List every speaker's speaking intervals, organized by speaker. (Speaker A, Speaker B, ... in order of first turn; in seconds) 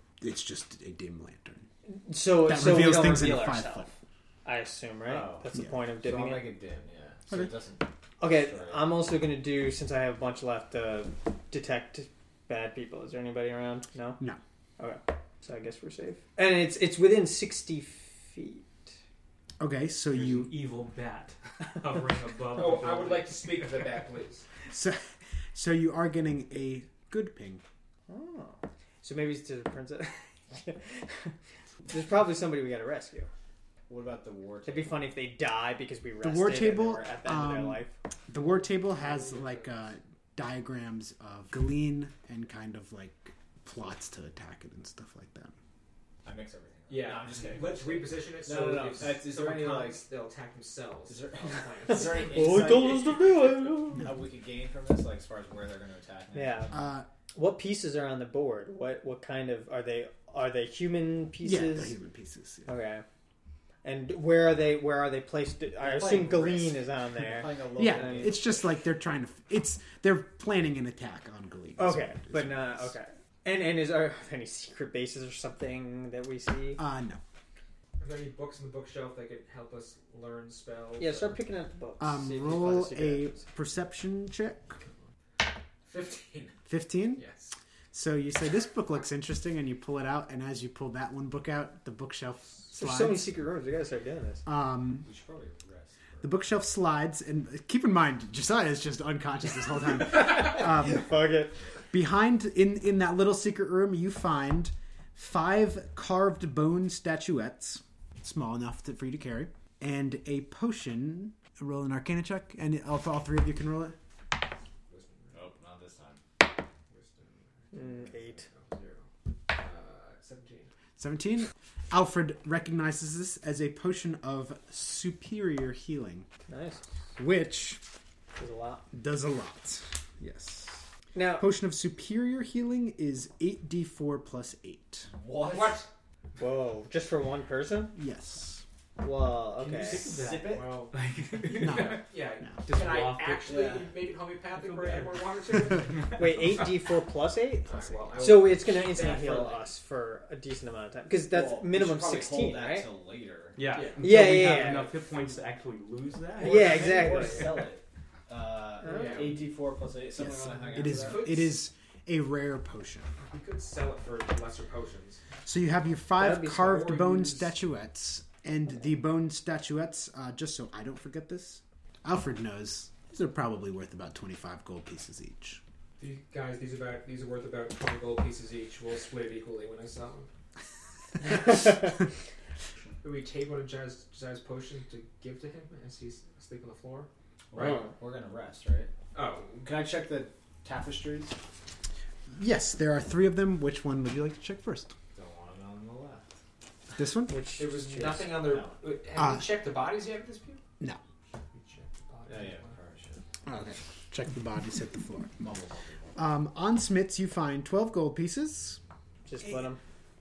Speaker A: 0.2-1.7, 2.4-3.9, 19.6-20.6, 24.7-27.6, 36.2-45.5, 56.7-57.1, 61.4-62.7, 67.8-72.9, 76.8-77.2, 82.0-84.8, 86.7-87.2, 87.9-93.3, 94.5-95.1, 96.2-101.2, 101.9-114.0, 121.0-126.3, 127.2-127.8, 128.9-130.8, 131.4-135.1, 137.9-138.6, 141.6-142.6, 160.2-163.1, 165.4-175.6, 192.3-194.9, 197.0-198.2, 199.2-199.5, 203.4-205.3, 206.2-208.8
Speaker B: 1.9-3.9, 4.4-6.5, 8.2-14.2, 14.8-18.7, 28.1-31.3, 31.9-33.3, 34.6-37.9, 51.9-54.1, 56.3-56.7, 57.3-62.0, 62.6-63.0, 63.8-68.4, 71.8-76.8, 81.0-83.4, 92.7-94.4, 100.1-101.6, 117.7-118.4, 126.5-126.8, 128.4-128.8, 131.1-131.5, 136.4-137.9, 139.0-140.1, 146.2-152.9, 154.0-154.9, 156.4-157.7, 158.8-159.3, 166.2-166.9, 187.6-187.9, 197.3-197.8, 209.2-209.8
Speaker C: 5.1-5.5, 6.0-9.0, 33.9-35.0, 39.0-39.6, 46.2-50.1, 51.1-56.8, 65.8-68.7, 95.0-96.3, 115.3-116.2, 135.1-135.9, 139.5-140.9, 143.4-144.0, 151.3-153.6, 156.4-161.3, 187.5-188.9, 189.6-191.4, 195.1-196.3, 197.9-198.8, 202.3-203.2, 205.4-206.2
Speaker D: 20.1-23.7, 139.8-143.5, 153.6-156.8
Speaker E: 22.5-24.4, 46.9-52.8, 78.0-81.4, 85.8-86.6, 87.1-87.5, 114.9-115.5, 116.9-120.7, 135.4-135.9, 141.5-146.6, 147.6-149.7, 153.7-154.1, 158.8-159.4, 160.7-161.6, 163.2-165.2, 166.3-167.5, 176.0-180.3, 181.2-181.7, 183.0-187.8, 189.1-189.7, 197.6-200.6, 201.5-202.7